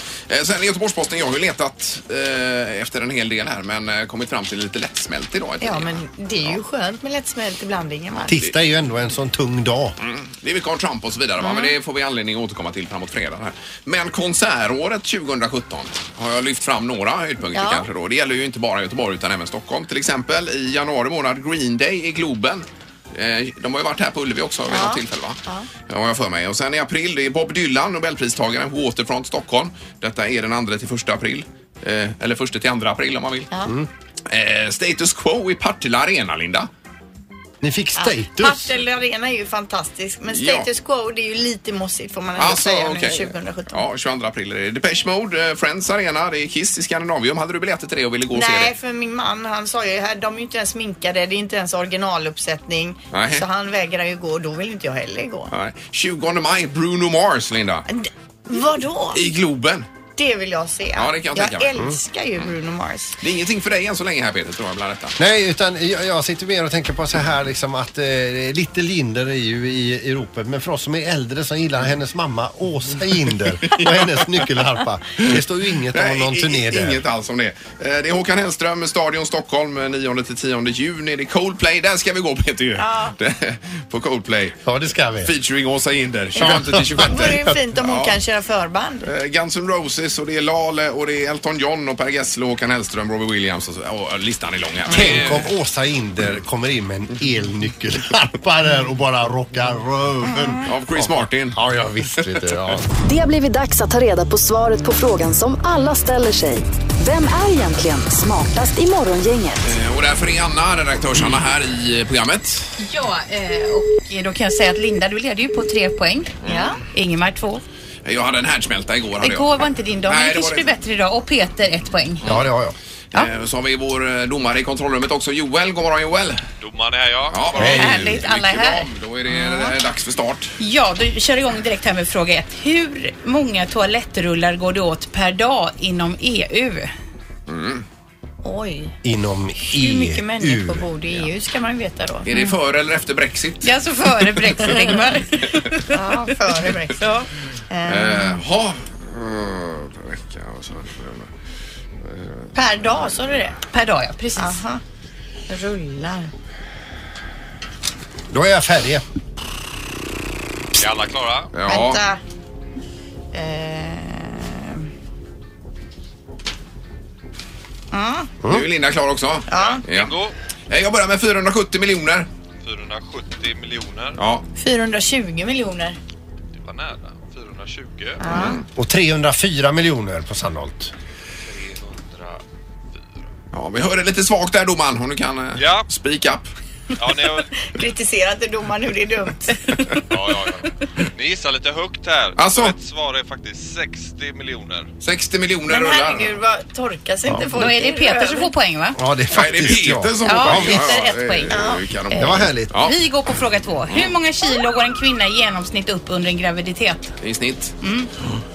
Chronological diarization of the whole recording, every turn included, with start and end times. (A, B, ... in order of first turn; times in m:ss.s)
0:00.3-0:06.6 A
0:05.6-0:08.4 B
0:08.3-0:10.0 C
0:10.0-0:33.5 A
0:11.4-0:11.7 B
0:17.5-0:17.9 B
0:24.7-0:25.7 B
0:34.3-0:36.7 A
0:37.6-0:38.7 C
0:38.0-0:43.8 B
0:40.3-0:40.7 A
0:42.4-0:48.7 A
0:48.3-0:55.5 B
0:53.1-0:53.4 A
0:55.5-0:57.8 A
0:57.9-0:59.2 B
0:59.1-0:59.9 A
1:00.2-1:03.2 B
1:01.0-1:01.8 A
1:03.2-1:05.2 A
1:05.2-1:17.0 C
1:13.6-1:14.3 A
1:15.9-1:24.6 A
1:22.8-1:23.2 B
1:24.6-1:25.3 C
1:25.2-1:28.2 A
1:26.4-1:29.1 B
1:26.4-1:27.6 C
1:29.0-1:35.5 A
1:34.9-1:42.9 C
1:40.7-1:41.6 A
1:42.2-1:42.5 A
1:43.0-1:49.7 D
1:49.6-1:52.8 A
1:52.8-1:56.4 E
1:56.4-1:56.8 B
1:56.5-1:56.7 A
1:56.9-1:57.6 E
1:58.0-1:59.5 A
1:59.2-2:02.3 E
2:00.1-2:00.7 A
2:02.2-2:02.5 A
2:02.2-2:02.8 C
2:03.1-2:06.4 A
2:06.6-2:07.8 F
2:07.3-2:10.6 A
2:07.6-2:08.2 C
2:07.6-2:08.9 E
2:09.4-2:09.7 E
2:10.6-2:16.9 E
2:17.5-2:17.8 A
2:18.4-2:19.0 B
2:19.0-2:20.9 C
2:19.6-2:22.3 B
2:22.3-2:23.8 A
2:23.6-2:25.9 E
2:25.9-2:28.4 B
2:27.9-2:31.3 A
2:32.0-2:32.5 A
2:32.6-2:33.6 B
2:33.7-2:34.6 E
2:34.4-2:34.8 B
2:35.5-2:36.3 B
2:38.3-2:39.0 C
2:40.8-2:41.5 F
2:41.5-2:42.0 A
2:41.7-2:42.2 B
2:43.3-2:44.9 B
2:47.9-2:48.3 B
2:48.5-2:50.2 A
2:49.5-2:49.8 B
2:49.6-2:50.4 F
2:50.7-2:52.3 A
2:52.6-2:54.2 F
2:54.2-2:54.4 A
2:54.6-2:56.0 B
2:56.6-2:58.3 F
2:58.2-2:58.6 B
2:58.2-2:58.6 A
2:58.8-3:00.9 C
3:01.5-3:02.4 F
3:03.5-3:06.5 A
3:05.6-3:05.9 F
3:07.0-3:07.5 F
3:07.6-3:10.0 B
3:10.1-3:14.9 F
3:12.4-3:12.8 A
3:15.0-3:16.3 A
3:15.7-3:18.5 B
3:17.3-3:17.7 C
3:17.5-3:19.0 E
3:19.0-3:21.0 C
3:19.3-3:23.0 A
3:20.2-3:27.2 E
3:21.5-3:21.8 B
3:22.2-3:22.7 C
3:23.9-3:24.2 A
3:27.2-3:27.8 A
3:27.8-3:28.1 E